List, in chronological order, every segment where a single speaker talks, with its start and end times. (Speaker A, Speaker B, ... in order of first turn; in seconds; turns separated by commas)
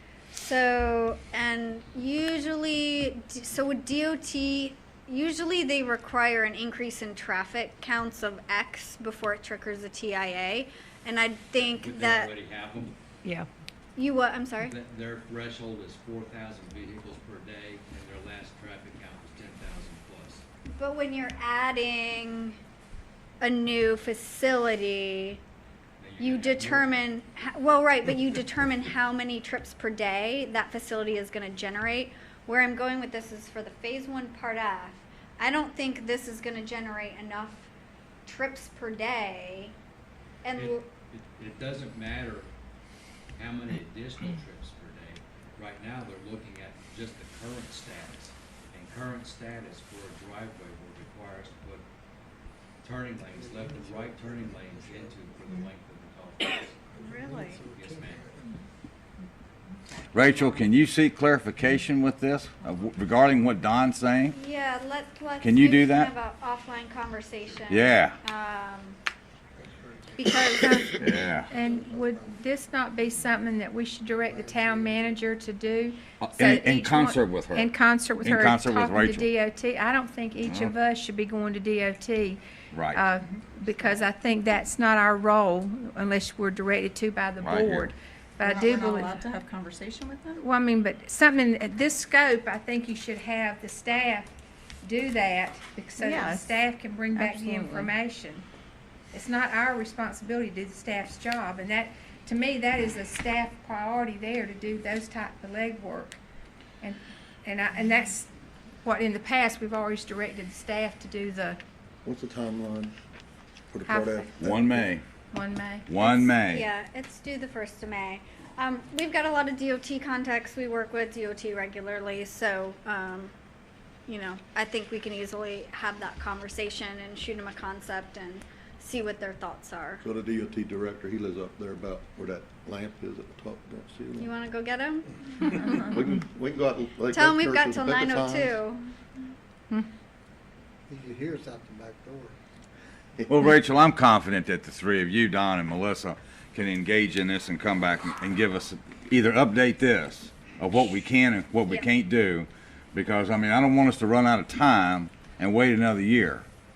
Speaker A: 0.3-12.3, Speaker B: 11.6-12.9, Speaker A: 14.0-14.7, Speaker B: 14.6-20.4, Speaker A: 20.7-22.6, Speaker A: 23.4-25.4, Speaker B: 26.0-27.1, Speaker A: 26.2-37.7, Speaker A: 38.3-39.7, Speaker A: 40.4-40.8, Speaker B: 40.5-42.5, Speaker B: 43.4-51.9, Speaker B: 52.8-56.8, Speaker C: 53.5-55.2, Speaker C: 57.0-58.3, Speaker A: 57.0-57.6, Speaker B: 57.6-58.2, Speaker D: 59.9-60.7, Speaker E: 60.1-64.4, Speaker A: 64.3-69.0, Speaker E: 65.4-66.1, Speaker E: 67.7-68.2, Speaker C: 69.6-72.4, Speaker A: 70.2-71.0, Speaker F: 70.6-89.2, Speaker E: 71.0-71.5, Speaker C: 74.1-75.2, Speaker E: 76.2-79.3, Speaker E: 80.4-80.7, Speaker E: 82.7-83.0, Speaker D: 83.2-84.0, Speaker E: 87.4-87.9, Speaker D: 88.4-90.4, Speaker F: 90.4-98.5, Speaker D: 96.0-96.6, Speaker D: 97.1-97.9, Speaker F: 99.1-106.2, Speaker F: 106.8-108.3, Speaker F: 108.8-111.6, Speaker G: 112.0-113.0, Speaker G: 113.7-114.9, Speaker F: 113.8-114.4, Speaker E: 114.4-115.0, Speaker F: 115.3-116.3, Speaker E: 115.9-116.7, Speaker A: 116.5-123.3, Speaker A: 124.1-130.0, Speaker G: 130.0-134.3, Speaker A: 134.2-135.5, Speaker G: 135.4-138.6, Speaker A: 137.1-138.8, Speaker C: 140.9-142.3, Speaker E: 143.3-156.4